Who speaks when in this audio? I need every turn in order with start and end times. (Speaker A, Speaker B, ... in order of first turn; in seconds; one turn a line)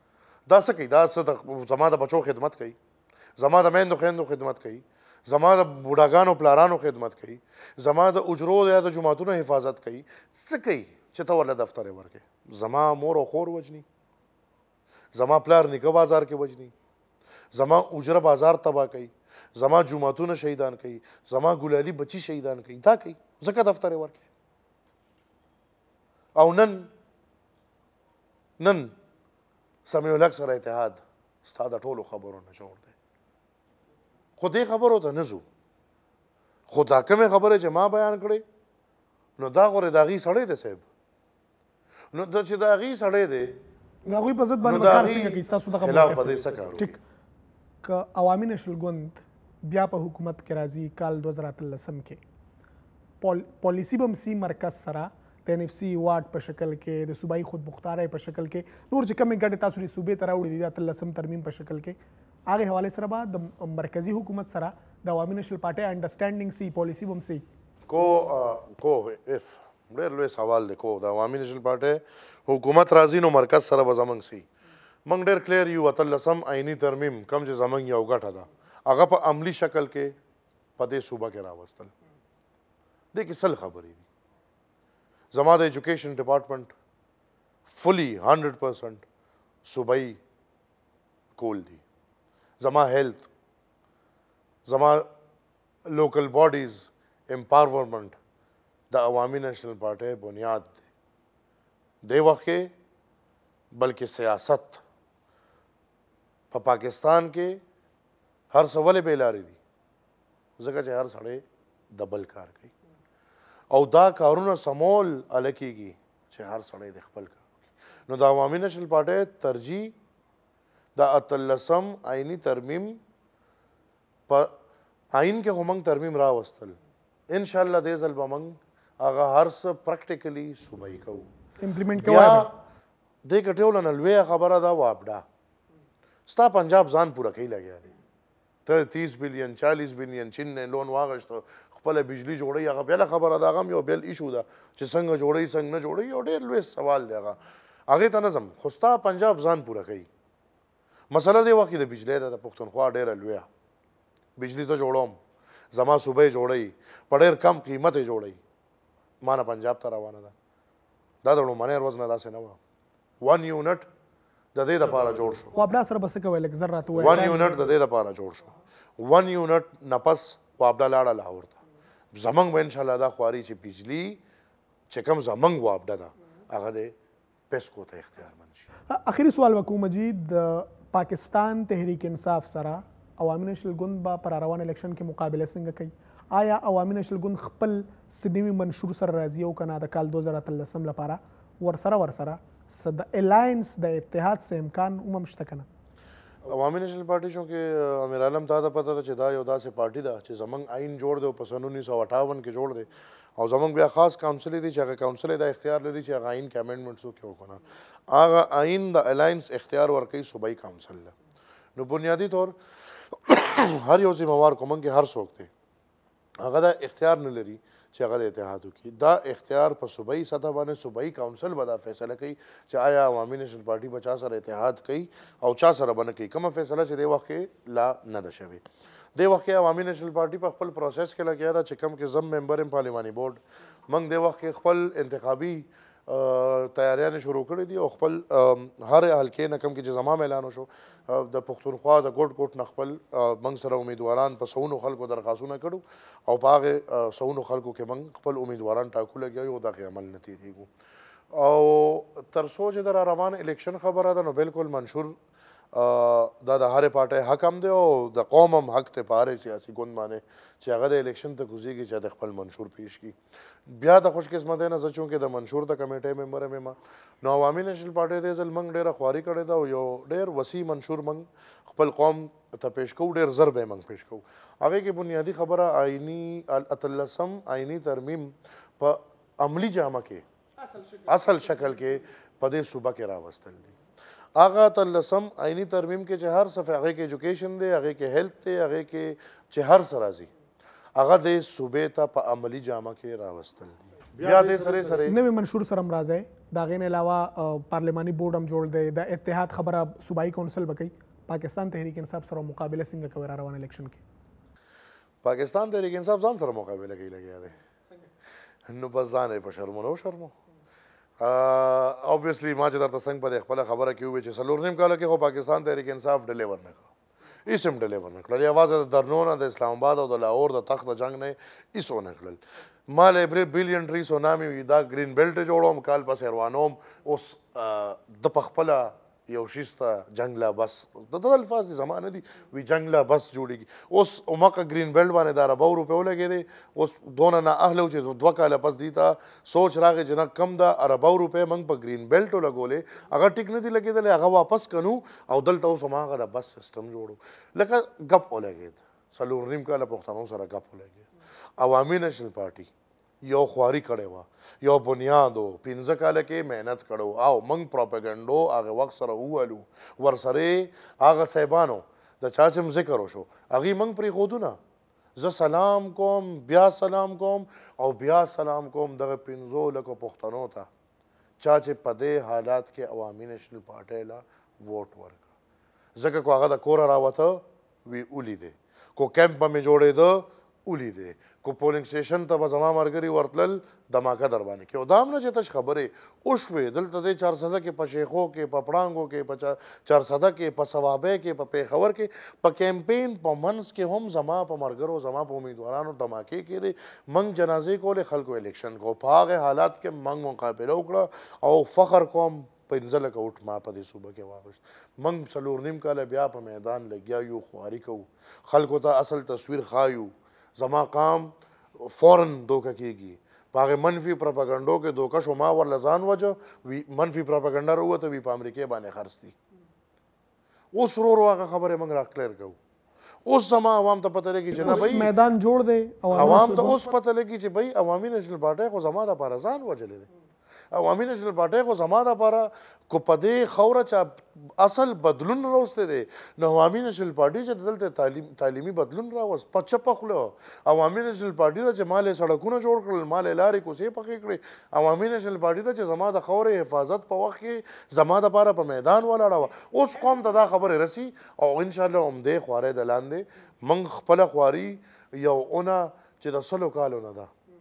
Speaker A: 0.5-2.8
Speaker A: 3.4-13.8
Speaker A: 15.1-16.7
Speaker A: 17.5-24.2
Speaker A: 26.3-26.9
Speaker A: 28.6-28.9
Speaker A: 29.9-32.9
Speaker A: 34.4-35.4
Speaker A: 36.7-38.4
Speaker A: 39.4-40.8
Speaker A: 42.1-43.6
Speaker B: 44.1-47.0
Speaker A: 44.6-46.9
Speaker B: 47.8-52.2
Speaker B: 53.2-62.0
Speaker B: 62.5-67.4
Speaker A: 67.9-74.5
Speaker A: 75.0-80.1
Speaker A: 80.8-81.9
Speaker A: 83.1-84.0
Speaker A: 85.3-86.7
Speaker A: 87.7-89.0
Speaker A: 89.6-90.2
Speaker A: 91.3-91.8
Speaker A: 92.6-93.3
Speaker A: 94.7-95.1
Speaker A: 95.8-98.2
Speaker A: 98.9-100.8
Speaker A: 102.0-102.7
Speaker A: 103.7-104.8
Speaker A: 106.5-107.6
Speaker A: 108.5-109.6
Speaker A: 110.6-112.7
Speaker A: 113.7-119.9
Speaker A: 121.0-123.0
Speaker A: 124.3-124.5
Speaker A: 125.1-126.8
Speaker A: 127.3-131.3
Speaker B: 131.6-132.5
Speaker A: 132.0-132.6
Speaker A: 133.2-135.2
Speaker A: 136.3-137.9
Speaker A: 138.7-150.1
Speaker A: 151.1-153.5
Speaker A: 154.4-155.2
Speaker A: 155.7-158.4
Speaker A: 159.2-160.3
Speaker A: 161.2-162.6
Speaker A: 163.2-163.9
Speaker A: 164.5-165.5
Speaker B: 165.5-167.6
Speaker A: 166.9-171.6
Speaker A: 172.1-174.2
Speaker A: 174.9-176.9
Speaker A: 177.5-178.7
Speaker B: 178.9-195.7
Speaker A: 196.4-211.1
Speaker A: 211.8-212.5
Speaker A: 213.1-215.5
Speaker A: 216.4-228.6
Speaker A: 229.1-250.7
Speaker A: 251.3-255.2
Speaker A: 255.7-280.2
Speaker B: 280.7-281.1
Speaker A: 281.1-283.8
Speaker A: 284.4-290.3
Speaker A: 290.9-295.1
Speaker B: 295.1-304.0
Speaker A: 305.2-307.6
Speaker A: 308.7-310.3
Speaker A: 311.2-316.9
Speaker A: 317.4-352.7
Speaker A: 353.2-364.6
Speaker A: 365.1-370.7
Speaker A: 371.4-375.3
Speaker A: 375.9-419.4
Speaker A: 420.7-422.6
Speaker A: 423.2-425.1
Speaker B: 424.5-426.8
Speaker A: 426.1-430.1
Speaker A: 430.7-457.3